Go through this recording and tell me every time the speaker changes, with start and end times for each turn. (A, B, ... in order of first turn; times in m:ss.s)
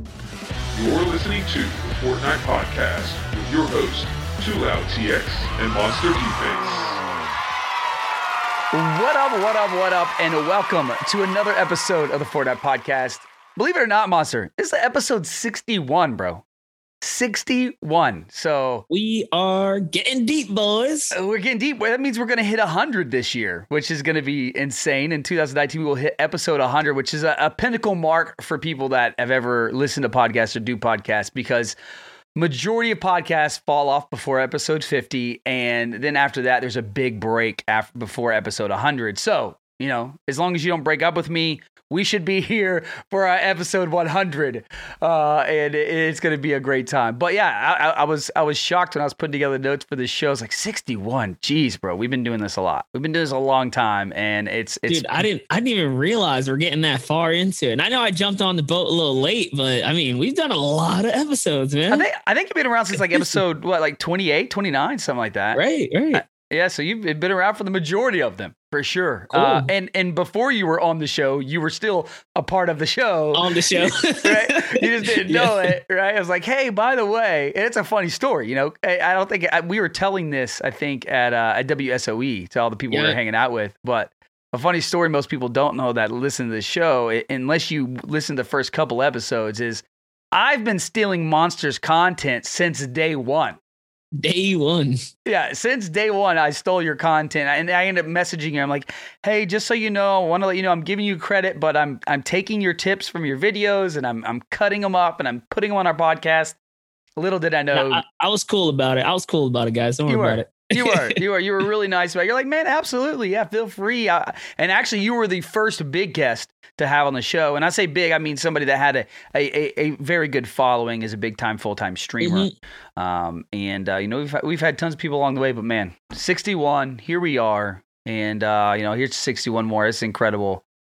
0:00.7-0:07.0 A
0:08.7-0:16.4 B
0:17.0-0:18.8 B
0:18.9-0:21.1 C
0:21.1-0:31.8 B
0:32.4-0:55.2 B
0:54.9-1:02.0 C
1:01.9-1:05.6 B
1:03.1-1:03.4 C
1:05.5-1:06.2 C
1:06.1-1:33.6 B
1:09.3-1:09.7 C
1:13.3-1:15.7 C
1:22.9-1:23.2 C
1:34.2-1:35.0 C
1:35.2-1:46.6 B
1:47.2-1:48.0 B
1:47.7-1:51.1 C
1:50.0-2:10.6 B
2:02.2-2:02.5 C